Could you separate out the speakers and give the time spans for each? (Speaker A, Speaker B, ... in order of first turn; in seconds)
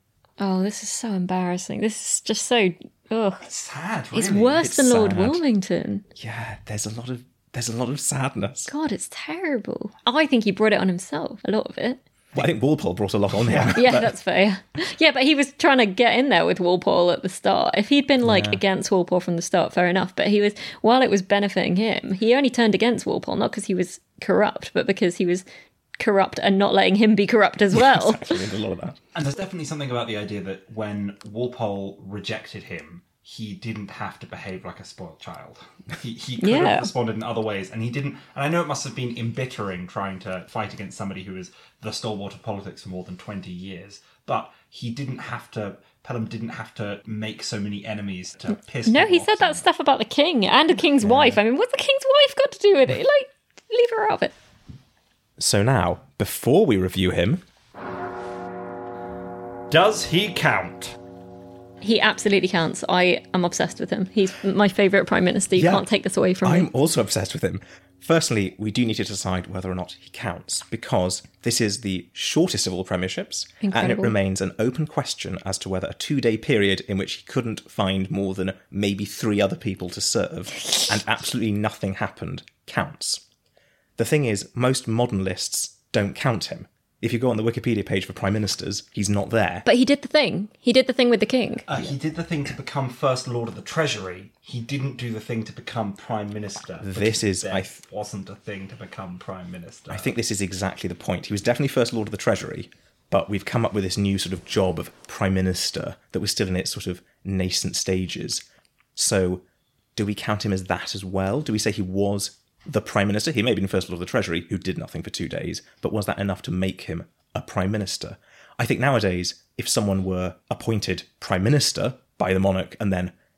Speaker A: 0.4-3.4, 4.1-6.0, 8.7-12.0, 13.7-25.4, 26.0-28.4, 36.4-36.9, 48.9-54.3, 61.8-66.7, 73.6-74.1, 89.7-91.7
Speaker B: 3.4-4.6, 13.3-13.9, 29.1-49.6, 59.7-61.0, 91.7-100.1
Speaker C: 4.6-5.4, 6.2-8.7, 12.3-14.1, 18.2-18.6, 27.7-29.0, 51.0-51.4, 55.4-57.4, 65.5-65.8, 66.4-83.2, 84.0-89.7, 96.8-97.8, 99.9-108.4, 109.0-109.4, 110.0-123.1